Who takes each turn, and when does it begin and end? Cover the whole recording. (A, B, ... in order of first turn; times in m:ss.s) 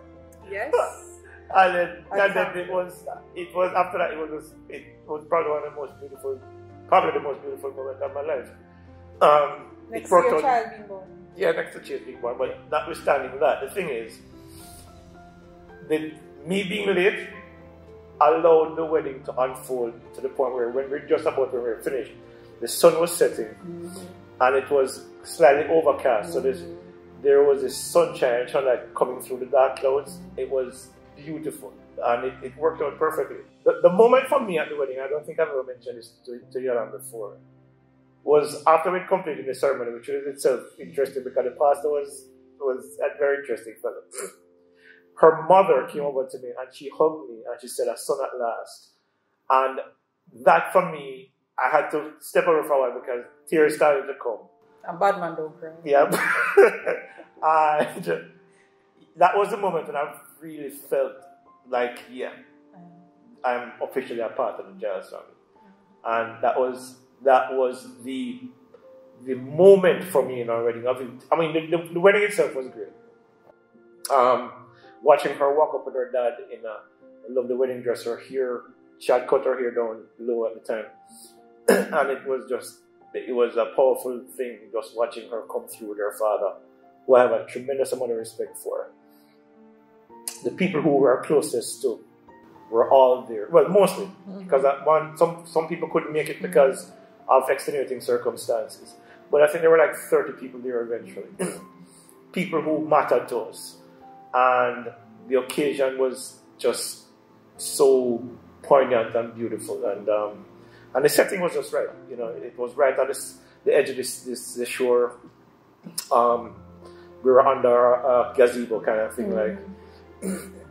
0:00.4-0:01.2 A
0:01.5-0:08.5 B
0:02.1-0:02.8 A
0:09.2-0:10.5 B
0:09.9-0:11.2 A
0:11.3-0:14.2 B
0:15.8-0:17.4 B
0:18.2-0:23.6 B
0:23.6-0:24.1 A
0:24.4-0:37.4 B
0:26.2-0:26.9 A
0:38.2-0:44.3 B
0:45.2-0:48.9 B
0:49.5-0:54.5 B
0:54.8-0:55.9 A
0:55.8-0:58.3 B
0:59.1-1:02.3 B
1:03.4-1:05.3 B
1:06.0-1:08.5 B
1:09.2-1:13.0 B
1:14.1-1:20.9 B
1:21.7-1:26.5 B
1:27.0-1:28.9 B
1:30.4-1:32.0 B
1:32.7-1:41.6 B
1:42.3-1:43.8 B
1:44.3-1:55.1 B
1:56.1-1:56.6 B
1:57.2-1:59.6 B
1:59.2-1:59.6 A